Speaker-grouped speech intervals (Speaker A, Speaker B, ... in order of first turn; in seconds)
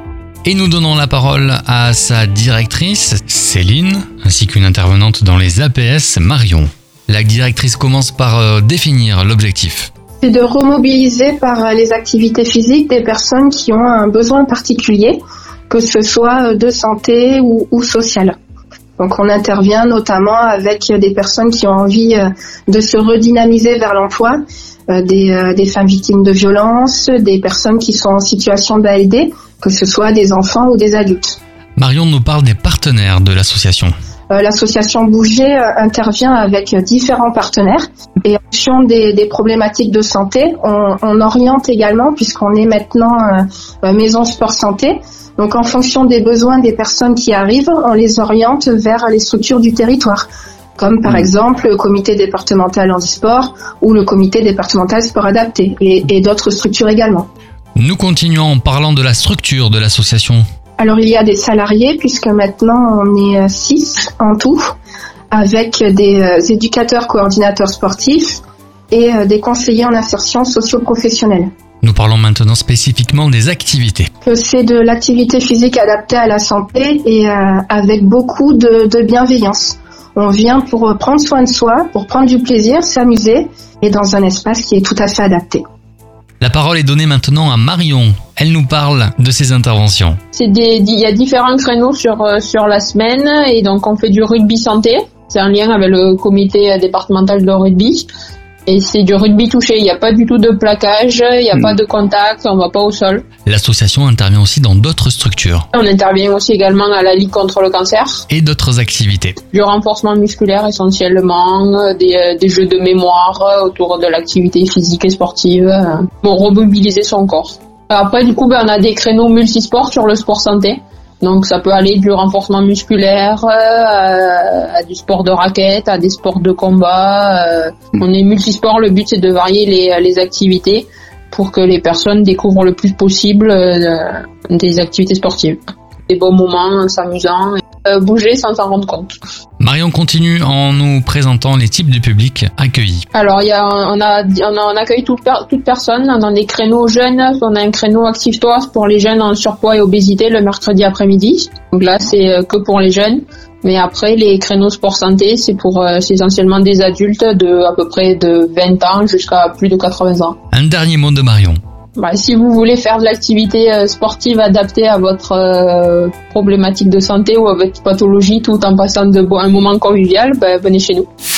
Speaker A: 0.5-9.9, 31.8-33.9, 57.8-60.4, 71.8-74.1, 86.4-90.2, 103.5-105.7, 108.3-109.4, 139.6-143.1, 160.5-161.6
Speaker B: 10.2-18.4, 19.0-31.4, 34.3-57.3, 60.8-64.7, 65.3-71.5, 74.2-85.6
Speaker C: 90.3-98.1, 98.7-103.2, 105.7-108.3, 109.5-139.2, 143.1-160.4, 162.0-171.1